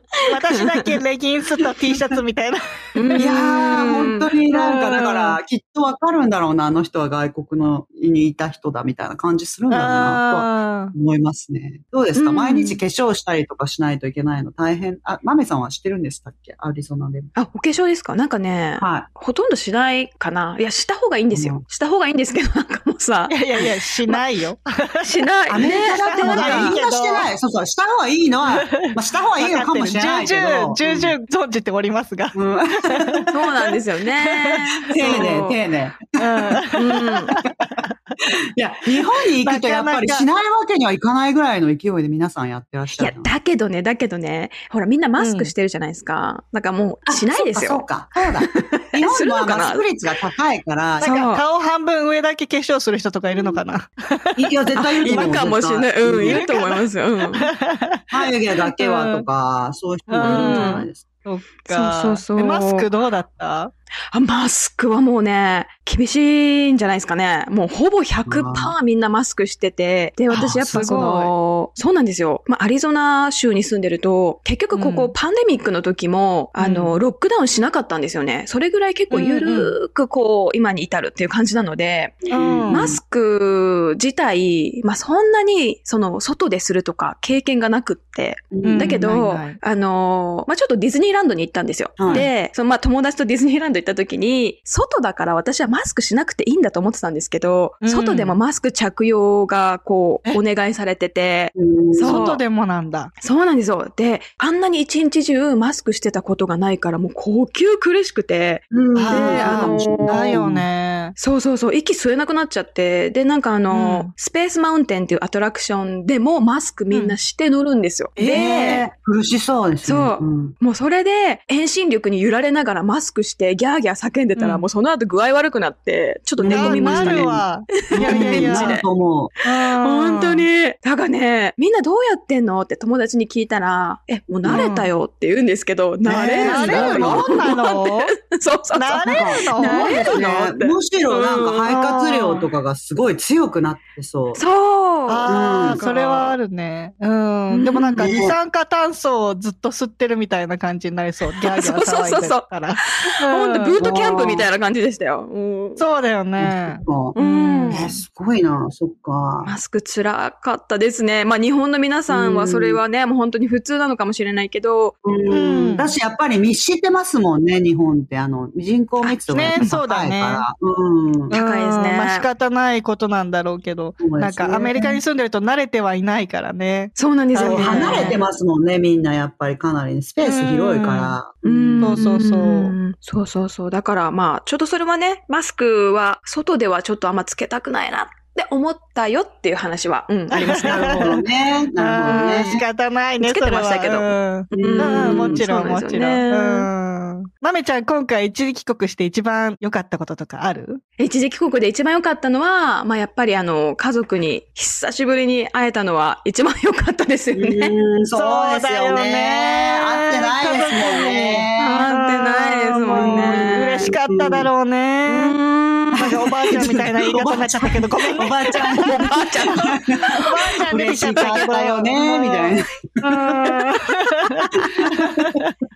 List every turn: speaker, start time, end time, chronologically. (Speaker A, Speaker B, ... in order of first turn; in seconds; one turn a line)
Speaker A: 0.3-3.3
Speaker B: 0.5-0.8
Speaker B: 3.0-4.3
Speaker C: 3.1-17.3
Speaker A: 4.5-5.4
Speaker A: 9.7-10.9
Speaker B: 12.2-12.8
Speaker B: 17.3-23.4
Speaker C: 18.8-19.1
Speaker C: 21.3-21.6
Speaker A: 23.3-25.1
Speaker B: 25.0-26.8
Speaker C: 25.5-31.1
Speaker A: 26.0-27.3
Speaker A: 28.5-33.3
Speaker C: 32.3-33.3
Speaker B: 33.3-35.6
Speaker A: 34.2-35.2
Speaker C: 34.9-36.8
Speaker A: 36.2-37.9
Speaker B: 36.7-37.4
Speaker C: 38.5-43.3
Speaker A: 39.4-40.3
Speaker B: 43.0-47.9
Speaker A: 45.2-45.5
Speaker C: 47.1-51.1
Speaker B: 48.5-49.9
Speaker A: 51.0-55.4
Speaker B: 51.0-51.4
Speaker C: 53.3-53.6
Speaker C: 54.4-56.4
Speaker B: 54.8-57.5
Speaker A: 56.2-56.9
Speaker A: 57.4-58.0
Speaker C: 58.1-61.1
Speaker A: 58.7-59.2
Speaker A: 60.1-63.7
Speaker B: 60.2-60.9
Speaker B: 61.6-62.9
Speaker B: 64.1-102.4
Speaker C: 68.2-68.7
Speaker C: 70.3-71.0
Speaker A: 70.7-71.3
Speaker A: 74.7-75.1
Speaker A: 76.6-77.0
Speaker A: 79.1-79.7
Speaker C: 82.3-83.0
Speaker A: 82.3-82.9
Speaker C: 88.5-89.0
Speaker A: 88.6-89.6
Speaker C: 92.0-92.3
Speaker A: 97.8-98.4
Speaker C: 101.5-102.2
Speaker A: 102.0-103.1
Speaker B: 103.2-110.2
Speaker C: 108.7-110.7
Speaker A: 108.9-111.1
Speaker B: 111.2-118.8
Speaker A: 113.7-114.1
Speaker A: 116.9-117.2
Speaker A: 118.2-118.5
Speaker C: 118.2-120.5
Speaker B: 119.8-128.8
Speaker A: 124.3-124.6
Speaker C: 126.4-129.3
Speaker A: 126.4-128.8
Speaker A: 129.4-130.5
Speaker B: 129.5-141.7
Speaker C: 134.4-134.7
Speaker A: 134.4-134.9
Speaker C: 136.0-137.4
Speaker A: 136.3-138.1
Speaker A: 138.8-140.1
Speaker C: 139.1-144.4
Speaker A: 141.7-142.5
Speaker B: 144.3-146.4
Speaker A: 145.1-153.8
Speaker C: 145.3-145.8
Speaker B: 147.5-148.3
Speaker C: 148.0-148.4
Speaker B: 151.3-155.8
Speaker C: 153.8-154.5
Speaker A: 155.8-158.0
Speaker C: 156.4-157.2
Speaker B: 157.1-157.8
Speaker C: 157.7-159.6
Speaker B: 159.4-164.9
Speaker C: 162.1-162.8
Speaker C: 165.0-171.3
Speaker A: 165.3-165.9
Speaker A: 169.1-170.4
Speaker A: 171.3-178.2
Speaker B: 171.3-172.2
Speaker C: 174.0-174.9
Speaker B: 177.0-178.2
Speaker C: 177.4-182.1
Speaker A: 180.2-181.2
Speaker B: 181.4-191.1
Speaker A: 181.8-182.7
Speaker C: 190.3-192.6
Speaker A: 190.3-191.2
Speaker A: 191.8-200.8
Speaker B: 192.1-192.6
Speaker B: 193.2-196.7
Speaker C: 194.5-195.4
Speaker B: 201.0-207.8
Speaker C: 207.3-211.7
Speaker A: 208.1-215.4
Speaker B: 211.6-213.9
Speaker C: 212.9-214.5
Speaker B: 215.1-216.8
Speaker A: 215.9-225.5
Speaker C: 216.0-223.5
Speaker B: 218.5-220.3
Speaker B: 220.9-221.5
Speaker C: 224.8-225.4